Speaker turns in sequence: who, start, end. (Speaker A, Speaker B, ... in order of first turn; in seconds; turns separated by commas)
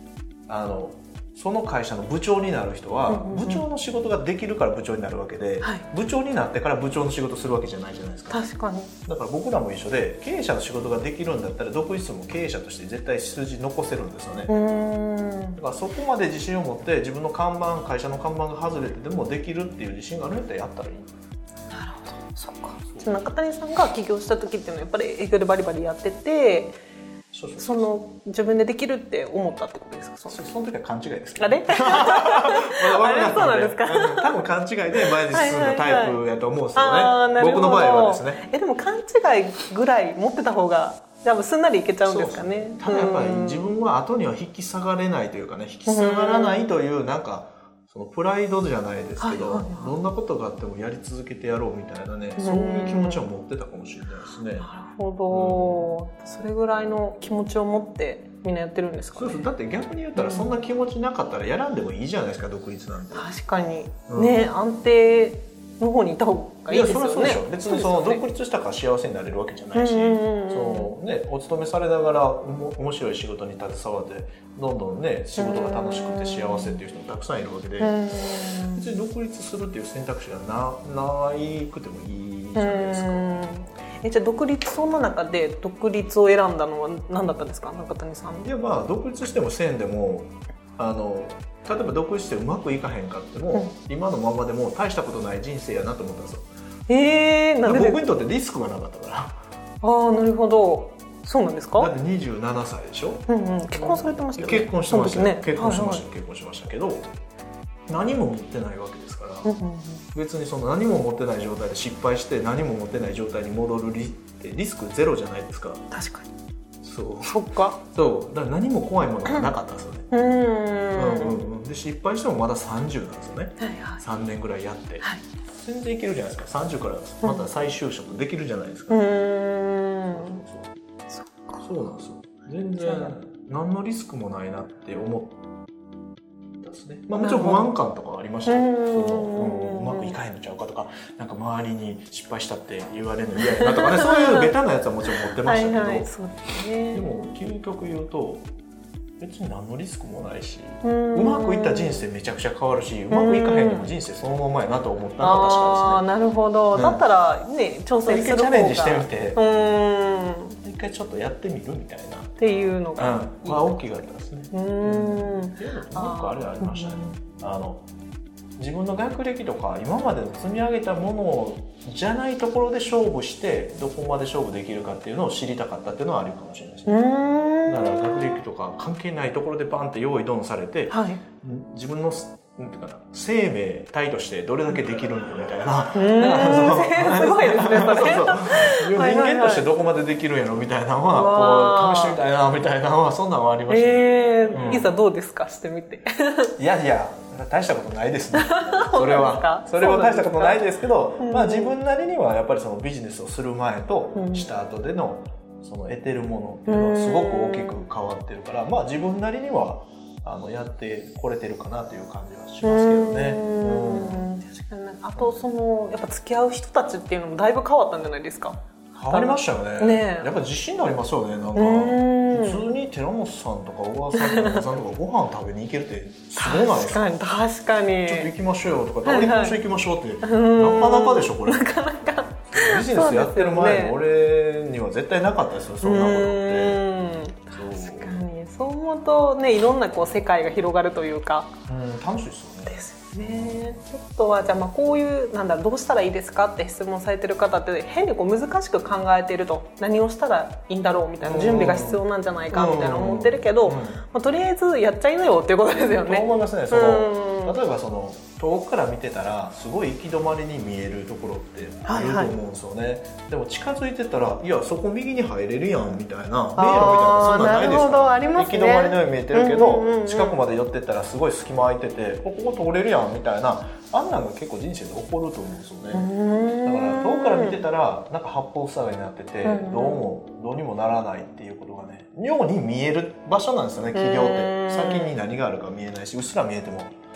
Speaker A: 0.5-8.4, Speaker B: 3.1-3.6, Speaker B: 8.3-8.9, Speaker A: 9.1-14.5, Speaker B: 14.5-15.6, Speaker A: 15.6-21.1, Speaker B: 21.7-26.8, Speaker A: 27.3-27.9, Speaker B: 27.6-30.4, Speaker A: 30.3-38.4, Speaker B: 31.4-34.3, Speaker B: 35.0-36.2, Speaker B: 36.8-43.7, Speaker A: 42.0-54.7, Speaker B: 45.9-46.7, Speaker B: 49.2-50.0, Speaker B: 52.4-53.3, Speaker B: 54.6-59.5, Speaker A: 55.3-55.9, Speaker A: 59.1-63.3, Speaker B: 60.2-60.5, Speaker B: 63.1-68.2, Speaker A: 64.1-64.5, Speaker A: 66.7-78.0, Speaker B: 69.8-70.9, Speaker B: 75.4-76.8, Speaker B: 77.8-78.9, Speaker A: 78.7-83.6, Speaker B: 82.5-88.5, Speaker A: 88.4-96.5, Speaker B: 96.9-98.0, Speaker A: 97.6-99.4, Speaker B: 99.8-101.9, Speaker A: 101.8-107.1, Speaker B: 103.3-106.0, Speaker A: 107.9-109.6, Speaker B: 109.4-110.0, Speaker A: 110.1-115.8, Speaker B: 115.9-116.3, Speaker A: 116.8-120.1, Speaker B: 117.3-117.8, Speaker B: 120.1-121.4, Speaker A: 120.9-125.0, Speaker B: 123.6-124.0, Speaker A: 125.6-129.2, Speaker B: 128.9-130.4, Speaker A: 130.1-130.7, Speaker B: 131.1-131.7, Speaker A: 131.6-135.4, Speaker B: 132.8-133.2, Speaker A: 136.6-146.1, Speaker B: 137.2-137.7, Speaker B: 138.5-140.2, Speaker B: 143.4-144.5, Speaker B: 145.4-147.2, Speaker A: 146.9-148.5, Speaker A: 149.2-156.0, Speaker B: 150.8-152.1, Speaker B: 153.1-153.9, Speaker B: 155.2-160.6, Speaker A: 156.7-157.0, Speaker A: 158.1-159.4, Speaker A: 160.6-162.3, Speaker B: 162.4-163.8, Speaker A: 163.0-167.8, Speaker B: 164.5-167.2, Speaker A: 168.6-177.0, Speaker B: 176.9-178.2, Speaker A: 177.7-194.9, Speaker B: 180.9-181.2, Speaker B: 185.9-189.7, Speaker B: 191.1-192.2, Speaker B: 193.7-196.5, Speaker A: 196.6-214.3, Speaker B: 198.3-201.8, Speaker B: 204.2-204.5, Speaker B: 206.7-207.9, Speaker B: 212.6-220.3, Speaker A: 215.2-215.5, Speaker A: 219.0-227.2, Speaker B: 221.6-222.7, Speaker B: 224.1-224.6, Speaker B: 226.4-228.3, Speaker A: 228.1-231.8, Speaker B: 229.1-229.6, Speaker B: 230.2-234.0, Speaker A: 232.5-236.8, Speaker B: 235.8-241.5, Speaker A: 237.5-238.2, Speaker A: 241.7-243.8, Speaker B: 242.7-257.6, Speaker A: 251.2-252.0, Speaker A: 252.5-254.0, Speaker A: 256.0-276.1, Speaker B: 261.9-262.3, Speaker B: 266.6-270.4, Speaker B: 275.9-277.6, Speaker A: 276.6-286.9, Speaker B: 279.4-280.1, Speaker B: 283.9-285.1